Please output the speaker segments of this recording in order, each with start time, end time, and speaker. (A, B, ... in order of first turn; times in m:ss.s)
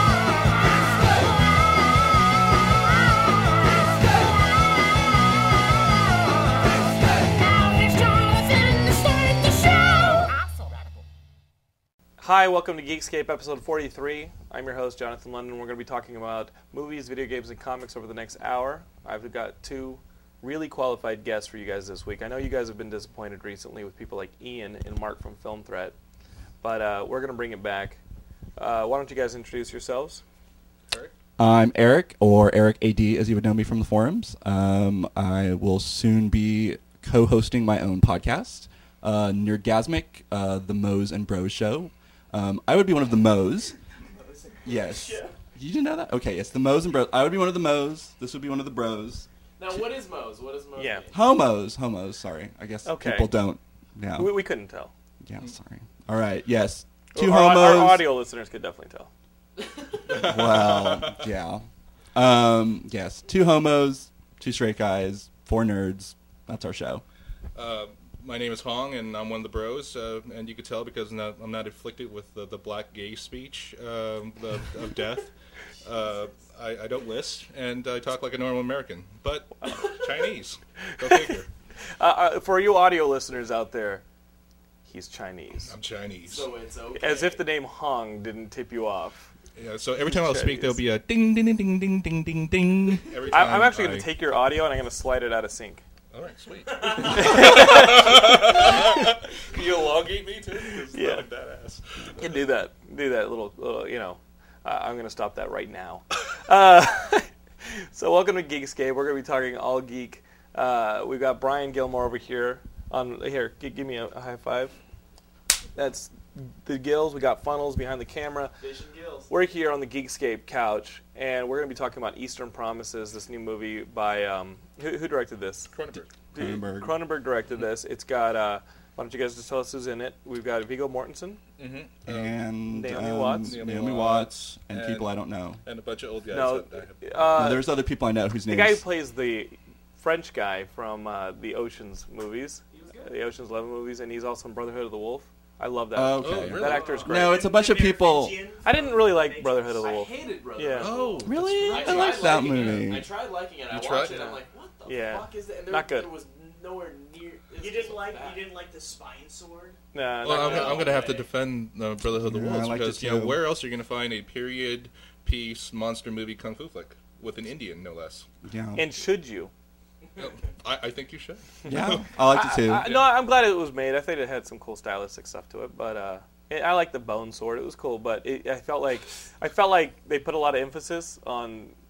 0:01.1-0:01.3 A
0:03.8-0:04.4 A
0:06.4-0:10.3 A
0:12.2-0:25.9 B
0:26.6-0:28.0 B
0:28.6-0:30.2 B
0:31.4-0:43.7 C
0:44.1-0:45.3 A
0:44.6-0:49.3 C
0:49.6-0:51.3 D
0:50.8-0:51.1 B
0:51.1-0:54.4 C
0:52.8-0:53.4 B
0:54.1-0:54.9 B
0:55.2-0:58.1 C
0:57.1-0:59.1 B
0:59.6-1:00.3 D
1:00.1-1:01.3 E
1:00.1-1:07.0 C
1:07.5-1:15.3 E
1:15.8-1:21.5 E
1:19.6-1:20.0 B
1:21.0-1:21.3 B
1:22.0-1:24.0 B
1:24.8-1:25.7 B
1:25.7-1:26.5 E
1:26.2-1:27.4 D
1:26.9-1:29.3 B
1:29.6-1:34.1 E
1:30.0-1:30.8 B
1:33.3-1:35.8 B
1:36.1-1:42.2 E
1:37.0-1:39.0 B
1:40.9-1:41.2 B
1:42.2-1:54.8 B
1:55.7-1:58.5 B
1:58.6-1:59.3 D
1:59.3-2:05.7 B
2:05.7-2:06.1 E
2:06.3-2:11.4 B
2:06.4-2:07.0 C
2:11.6-2:12.4 E
2:12.0-2:15.6 C
2:12.7-2:13.6 B
2:13.5-2:17.5 E
2:16.3-2:17.7 B
2:17.3-2:18.8 C
2:18.5-2:27.5 B
2:22.7-2:23.1 D
2:25.9-2:28.4 C
2:26.2-2:27.1 E
2:26.6-2:27.1 D
2:27.1-2:29.9 A
2:28.6-2:31.0 B
2:29.8-2:38.5 D
2:30.8-2:32.9 E
2:31.2-2:33.1 C
2:31.8-2:32.1 B
2:33.7-2:34.2 E
2:34.0-2:36.1 B
2:37.6-2:39.8 A
2:39.9-2:41.0 B
2:40.2-2:48.3 E
2:40.2-2:41.3 D
2:42.2-2:43.4 C
2:48.4-2:48.8 C
2:48.7-2:49.5 B
2:50.2-2:52.1 E
2:51.6-2:52.8 C
2:51.7-3:01.7 B
2:52.8-2:53.1 E